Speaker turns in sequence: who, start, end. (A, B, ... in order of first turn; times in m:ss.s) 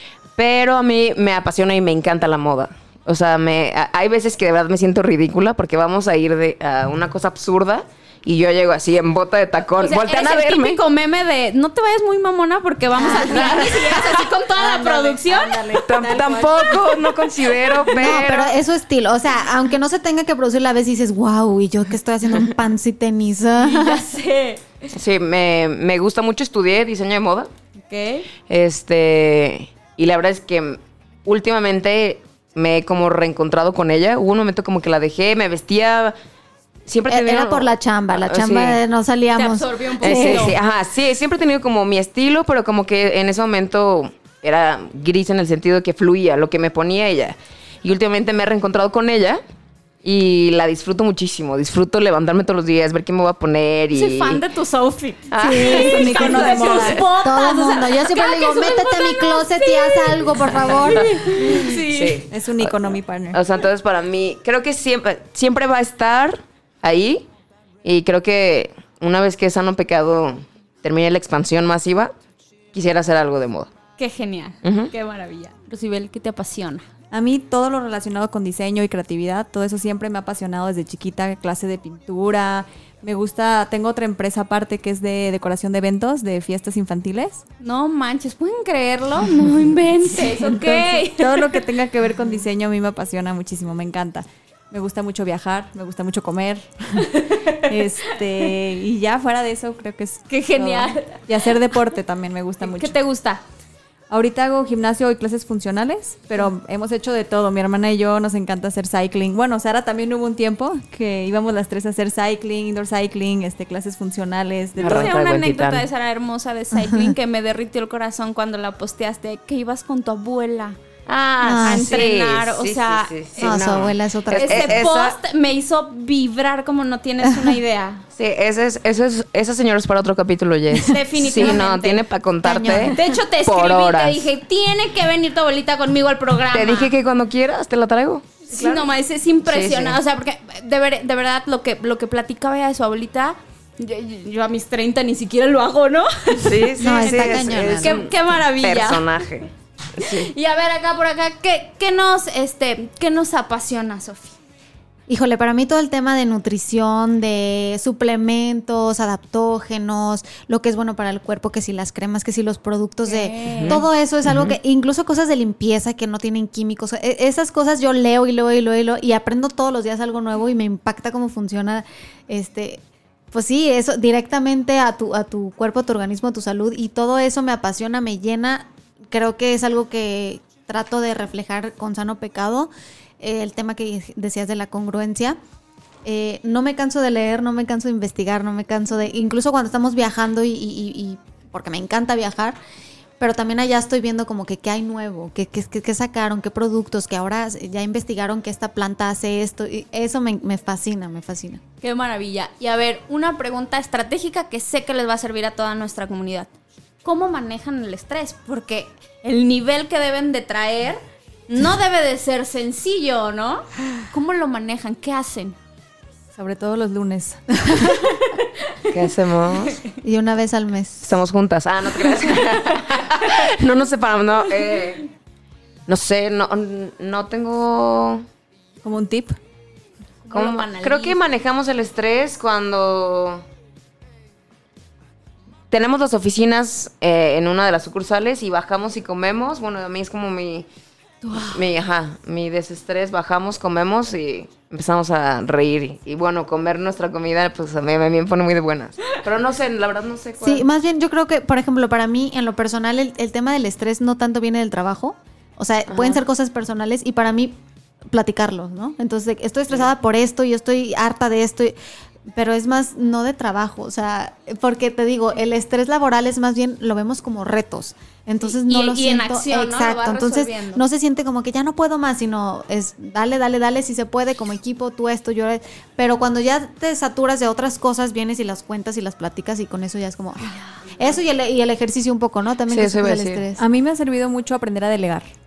0:00.4-0:10.8 A
0:09.8-0:15.6 B
0:13.0-0:13.6 C
0:13.0-0:16.8 D
0:15.8-0:18.5 A
0:17.5-0:17.9 B
0:17.9-0:24.0 C
0:23.6-0:24.6 B
0:24.9-0:27.5 A
0:27.8-0:28.3 B
0:28.5-0:36.1 A
0:36.9-0:38.8 A
0:37.1-0:40.6 C
0:39.3-0:40.5 B
0:40.0-0:49.4 A
0:50.0-0:54.4 A
0:53.9-1:02.2 B
0:55.3-0:57.0 A
0:55.4-0:56.4 C
0:55.4-0:57.0 D
0:57.0-1:01.4 C
1:00.5-1:07.2 A
1:02.3-1:03.4 D
1:07.8-1:12.1 A
1:12.7-1:13.7 A
1:14.0-1:16.8 B
1:14.6-1:14.9 A
1:17.1-1:27.4 D
1:27.6-1:31.6 B
1:30.1-1:43.0 D
1:37.1-1:38.1 B
1:40.3-1:41.2 B
1:42.6-1:43.4 B
1:44.1-1:55.1 D
1:54.8-2:00.8 B
1:54.8-1:55.8 A
1:56.7-1:57.2 C
2:01.1-2:05.2 A
2:01.4-2:03.6 B
2:01.4-2:02.0 C
2:03.4-2:04.8 C
2:04.4-2:08.0 B
2:08.2-2:14.3 A
2:10.8-2:12.0 B
2:11.3-2:11.6 C
2:12.4-2:13.1 C
2:12.9-2:16.9 B
2:16.5-2:18.9 A
2:18.5-2:29.2 B
2:19.4-2:20.0 A
2:26.4-2:30.3 A
2:26.8-2:28.0 C
2:30.0-2:34.3 B
2:35.1-3:05.4 C
2:43.1-2:43.8 B
2:43.7-2:44.5 A
3:06.0-3:12.6 C
3:13.2-3:21.6 C
3:21.8-3:26.5 B
3:27.0-3:35.6 B
3:36.3-3:38.2 D
3:38.0-3:38.4 B
3:38.8-3:39.8 A
3:40.0-3:41.0 C
3:41.0-3:45.1 A
3:45.9-3:48.2 A
3:48.8-3:49.4 D
3:50.2-3:51.2 B
3:50.3-3:53.4 A
3:55.7-4:00.6 A
4:01.2-4:01.6 B
4:01.3-4:10.6 A
4:10.4-4:21.7 C
4:15.9-4:16.2 A
4:22.3-4:43.6 C
4:28.4-4:30.8 B
4:42.7-4:43.4 A
4:43.6-4:45.3 D